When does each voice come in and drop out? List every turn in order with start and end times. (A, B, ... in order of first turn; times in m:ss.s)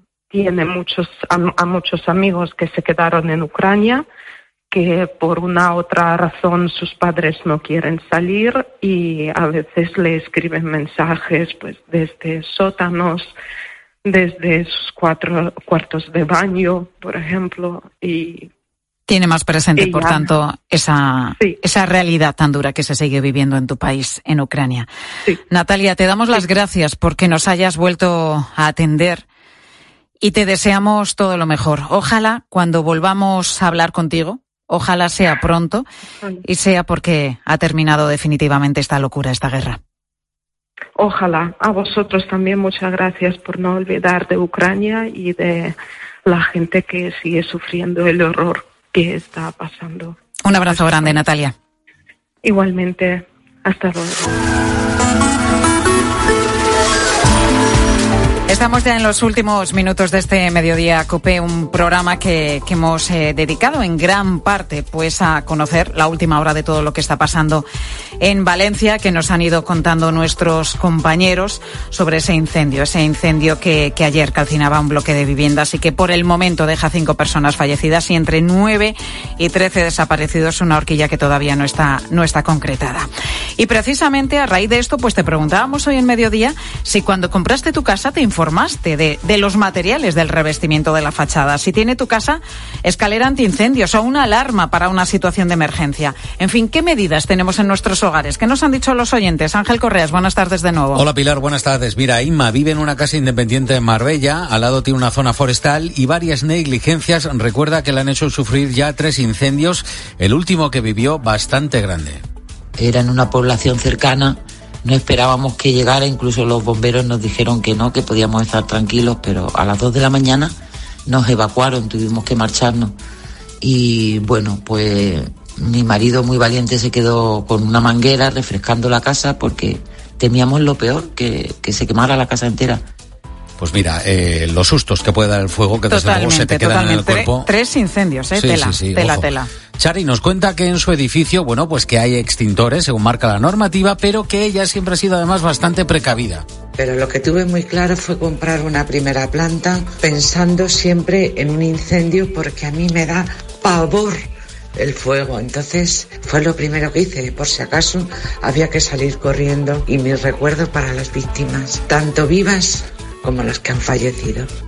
0:00.3-0:04.1 A
0:04.7-0:13.3 A
0:14.0-0:18.5 A
0:19.1-0:24.9 B
0:19.8-0:20.3 A
0:25.5-0:29.2 B
0:30.2-0:35.9 B
0:36.4-0:39.8 B
0:41.0-0:50.2 A
0:50.5-0:51.5 B
0:50.7-0:51.2 A
0:52.4-0:54.2 A
0:58.5-1:07.6 B
1:08.2-1:41.0 B
1:40.9-1:52.2 C
1:52.8-2:03.0 D
2:03.6-2:12.8 D
2:13.6-2:17.5 C
2:15.9-2:19.5 B
2:18.3-2:26.4 C
2:26.8-2:44.5 E